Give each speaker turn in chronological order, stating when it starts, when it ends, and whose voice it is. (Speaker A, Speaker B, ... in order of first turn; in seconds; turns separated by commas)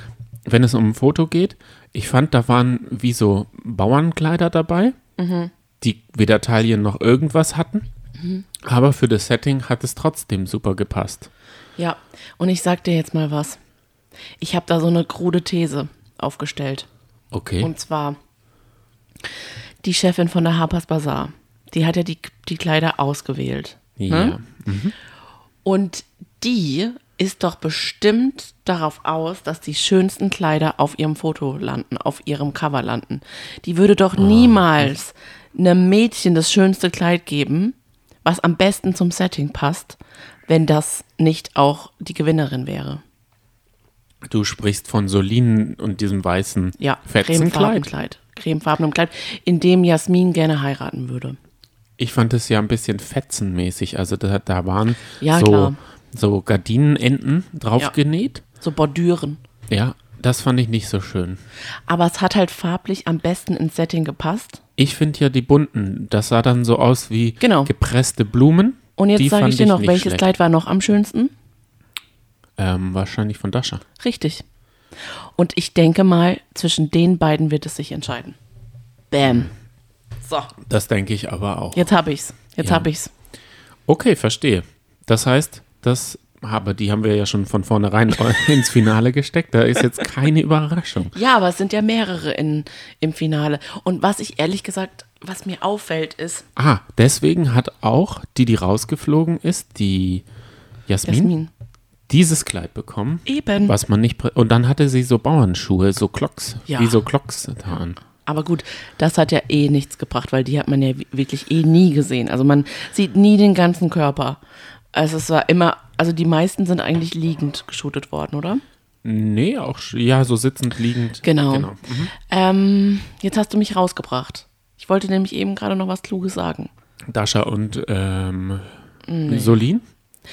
Speaker A: 0.5-5.0, Speaker B: 5.2-5.5, Speaker A: 5.8-7.9, Speaker B: 8.2-8.4, Speaker A: 8.6-11.3, Speaker B: 11.8-13.6, Speaker B: 14.4-16.9, Speaker A: 17.3-17.7, Speaker B: 17.6-18.2, Speaker B: 19.8-24.4, Speaker A: 24.0-24.9, Speaker B: 25.6-43.0, Speaker A: 34.2-34.9, Speaker A: 44.2-47.9, Speaker B: 46.8-51.4, Speaker A: 52.0-58.4, Speaker B: 55.2-55.8, Speaker B: 58.6-59.4, Speaker A: 59.7-61.4, Speaker B: 61.9-64.6, Speaker A: 64.8-70.3, Speaker B: 67.4-67.7, Speaker B: 69.0-71.3, Speaker A: 72.6-73.8, Speaker B: 74.0-74.4, Speaker B: 75.4-78.4, Speaker B: 79.1-79.5, Speaker B: 80.3-80.5, Speaker A: 80.6-81.9, Speaker B: 81.7-83.1, Speaker A: 82.6-82.9, Speaker A: 83.9-91.2, Speaker B: 91.1-96.5, Speaker A: 96.6-100.2, Speaker A: 100.9-101.3, Speaker B: 101.1-101.5, Speaker A: 102.1-108.0, Speaker B: 103.3-103.8, Speaker B: 106.7-107.0, Speaker B: 108.2-114.4, Speaker B: 114.9-118.6, Speaker A: 119.0-122.1, Speaker B: 121.2-126.7, Speaker A: 127.1-128.7, Speaker B: 129.1-129.6, Speaker A: 129.3-129.8